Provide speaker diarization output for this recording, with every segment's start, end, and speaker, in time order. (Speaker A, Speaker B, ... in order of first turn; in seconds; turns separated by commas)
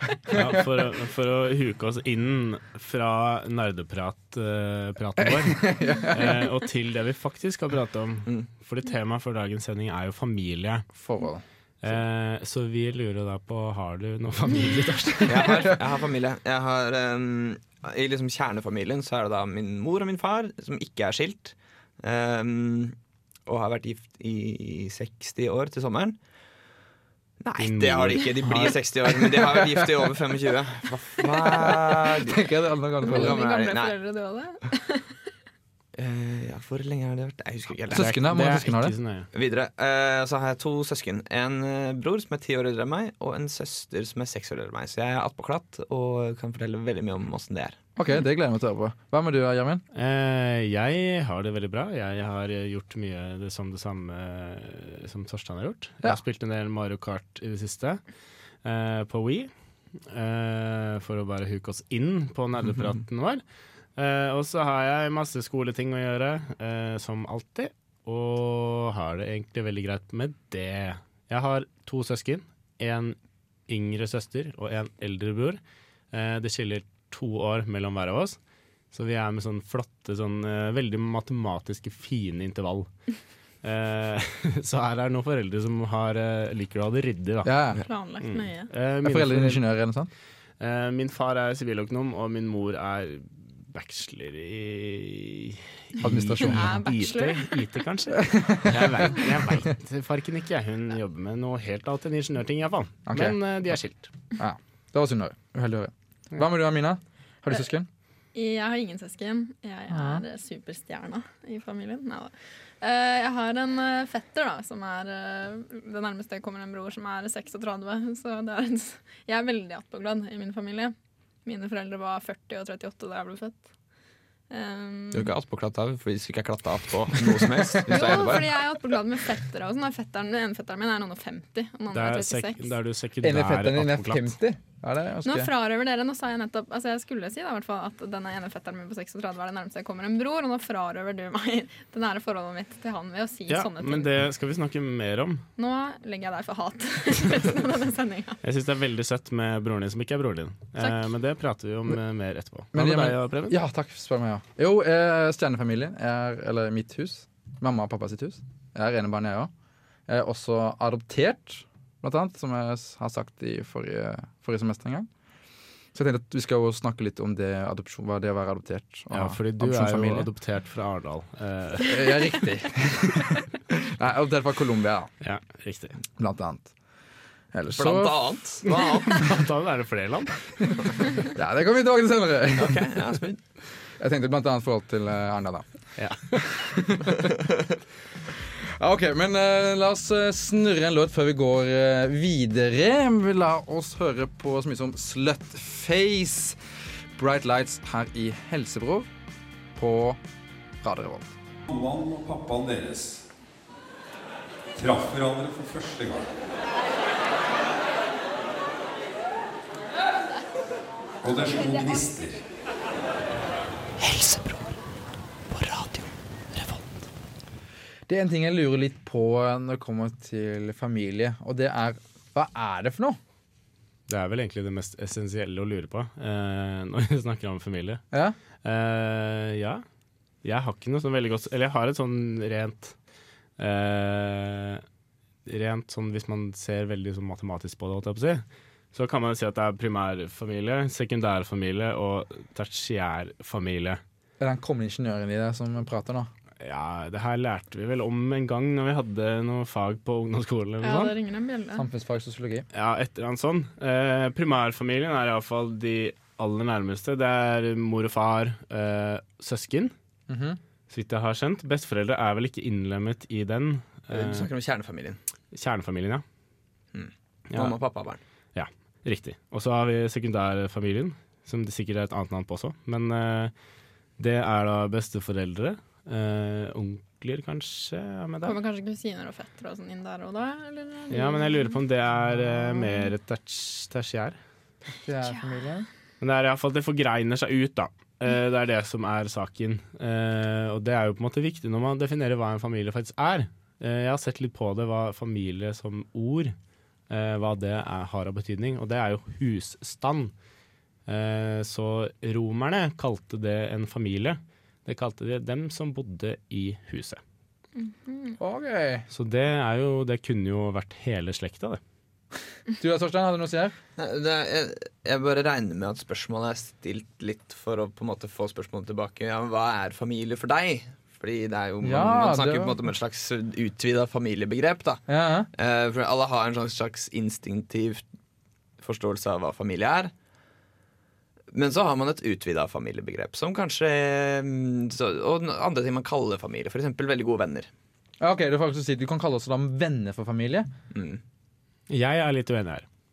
Speaker A: 0.3-0.6, Speaker B: 0.3-10.8, Speaker A: 5.2-6.5, Speaker A: 10.9-11.4, Speaker B: 11.8-15.7, Speaker C: 15.3-26.2, Speaker C: 27.4-32.4, Speaker B: 27.6-28.8, Speaker A: 29.3-29.9, Speaker A: 31.2-33.4, Speaker D: 33.0-35.2, Speaker C: 33.0-33.9, Speaker C: 36.0-38.1, Speaker A: 37.9-38.9, Speaker B: 37.9-39.3, Speaker C: 39.3-47.8, Speaker A: 48.0-49.8, Speaker B: 49.9-58.0, Speaker B: 58.6-63.4, Speaker B: 63.9-73.2, Speaker B: 73.7-75.6, Speaker B: 76.1-78.4, Speaker B: 78.9-87.5, Speaker A: 87.4-87.8, Speaker D: 87.8-88.7, Speaker B: 88.2-89.6, Speaker A: 89.0-90.1, Speaker B: 90.6-104.1, Speaker A: 96.0-96.7, Speaker D: 96.3-97.6, Speaker A: 98.3-99.6, Speaker A: 103.1-103.4, Speaker A: 104.4-107.9, Speaker D: 108.3-123.7, Speaker A: 109.9-110.2, Speaker D: 124.5-125.3, Speaker C: 125.1-128.4, Speaker D: 127.9-132.7, Speaker B: 131.9-134.3, Speaker A: 133.2-135.5, Speaker D: 135.2-144.1, Speaker B: 143.5-145.4, Speaker D: 145.6-148.4, Speaker B: 148.4-153.6, Speaker A: 152.7-159.5, Speaker A: 160.1-165.1, Speaker A: 165.9-170.3, Speaker B: 169.1-172.2, Speaker A: 171.8-175.1, Speaker B: 175.2-176.0, Speaker A: 176.2-176.7, Speaker A: 177.5-178.7, Speaker C: 177.8-179.3, Speaker B: 178.7-180.8, Speaker A: 181.3-183.0, Speaker C: 182.5-183.4, Speaker A: 184.0-185.7, Speaker B: 186.0-186.5, Speaker A: 186.3-187.3, Speaker A: 188.3-196.6, Speaker A: 197.2-199.1, Speaker A: 199.7-200.2, Speaker A: 200.8-201.3, Speaker E: 201.7-203.2, Speaker E: 204.8-206.3, Speaker E: 211.2-212.4, Speaker A: 218.1-223.2, Speaker B: 224.1-228.0, Speaker B: 228.6-229.8, Speaker B: 230.4-232.9, Speaker B: 233.6-234.8, Speaker B: 235.4-244.0, Speaker A: 244.4-246.3, Speaker B: 246.6-251.2, Speaker D: 250.8-251.8, Speaker A: 251.7-252.7, Speaker B: 252.7-259.9, Speaker A: 260.3-260.6, Speaker B: 260.9-264.5, Speaker C: 264.1-265.2, Speaker B: 265.5-266.2, Speaker C: 266.9-268.2, Speaker B: 268.5-273.5, Speaker B: 274.2-278.6, Speaker D: 278.4-281.8, Speaker B: 281.1-284.4, Speaker D: 282.8-283.1, Speaker A: 284.9-285.9, Speaker B: 286.2-296.5, Speaker B: 297.1-300.3, Speaker B: 301.1-307.2, Speaker D: 307.8-308.4, Speaker A: 308.4-309.1, Speaker B: 309.1-311.8, Speaker A: 312.8-313.7, Speaker C: 314.0-328.0, Speaker A: 321.8-322.8, Speaker A: 325.1-325.5, Speaker C: 328.8-330.1, Speaker C: 331.5-337.7, Speaker A: 338.2-340.7, Speaker C: 340.9-341.2, Speaker B: 341.9-342.9